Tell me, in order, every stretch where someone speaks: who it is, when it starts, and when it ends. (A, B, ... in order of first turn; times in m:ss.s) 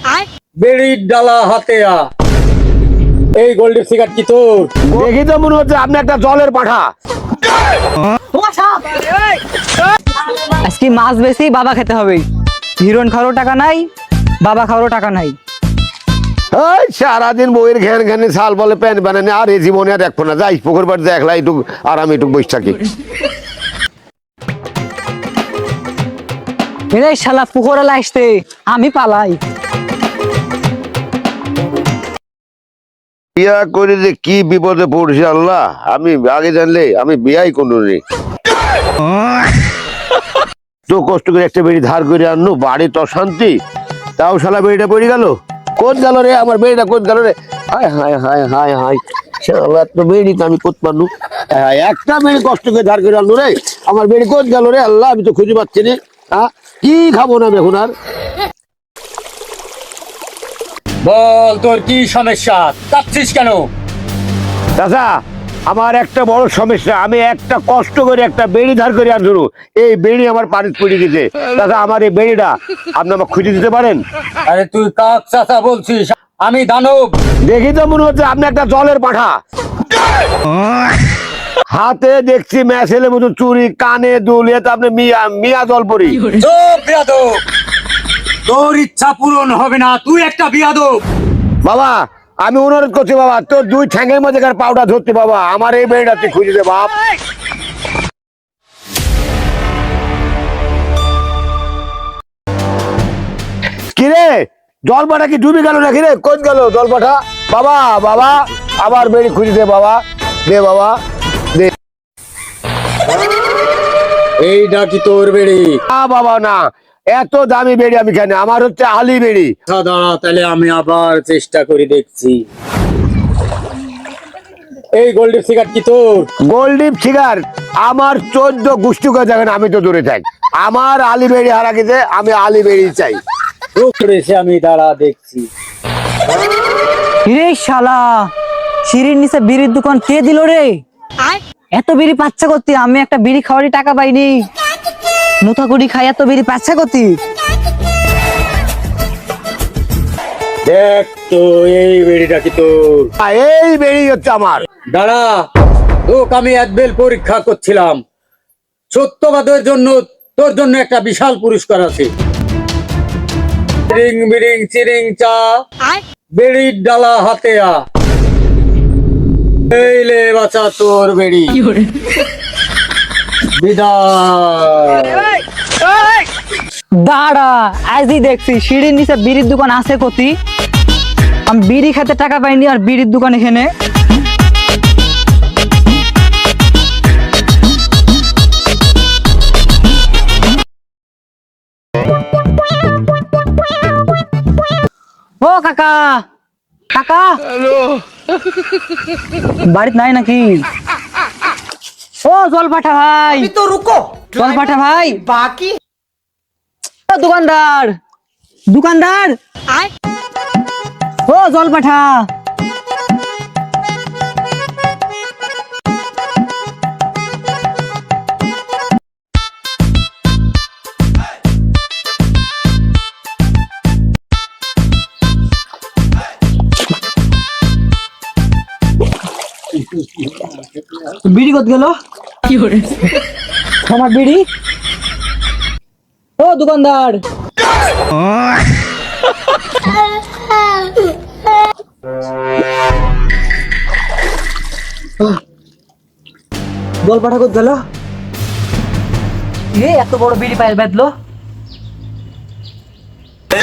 0:00.6-0:02.0 A
0:03.4-0:04.7 A
0:04.9-0:06.8 B
0:08.3-0:09.4 C
0:10.3-0:12.2 C
0:12.8-0:13.8 C
0:14.4-0:15.4 C
0:16.5-0:22.8 B
0:26.9-0:29.4 C
0:33.4-0:38.0 B
0:40.9-0:43.6 B
0:44.2-0:57.9 B
1:01.0-1:03.7 A
1:04.8-1:05.1 B
1:05.7-1:14.0 B
1:14.4-1:17.1 A
1:17.4-1:19.3 B
1:21.7-1:26.2 B
1:26.3-1:27.4 A
1:28.4-1:31.0 A
1:31.6-1:36.9 B
1:43.9-1:44.4 B
1:44.9-1:50.9 B
1:54.4-1:55.8 A
1:55.9-1:59.5 B
1:59.7-2:02.4 A
2:05.0-2:06.3 A
2:06.4-2:13.2 B
2:13.7-2:15.4 A
2:17.2-2:18.1 C
2:18.8-2:20.7 C
2:21.3-2:24.4 C
2:25.4-2:27.2 C
2:30.6-2:33.1 A
2:33.2-2:34.6 B
2:34.9-2:35.4 A
2:36.0-2:38.0 A
2:38.9-2:42.1 A
2:43.9-2:45.6 A
2:46.4-2:47.8 A
2:49.7-2:51.8 A
2:53.5-2:55.4 A
2:57.0-3:00.4 C
3:01.5-3:03.7 C
3:15.4-3:16.2 C
3:16.9-3:17.4 C
3:19.6-3:20.6 C
3:22.2-3:25.7 C
3:27.1-3:28.0 C
3:28.7-3:29.9 C
3:31.3-3:32.3 C
3:51.1-3:53.0 C
3:53.8-3:54.4 C
3:56.4-3:57.2 C
4:07.0-4:07.8 C
4:09.7-4:11.1 C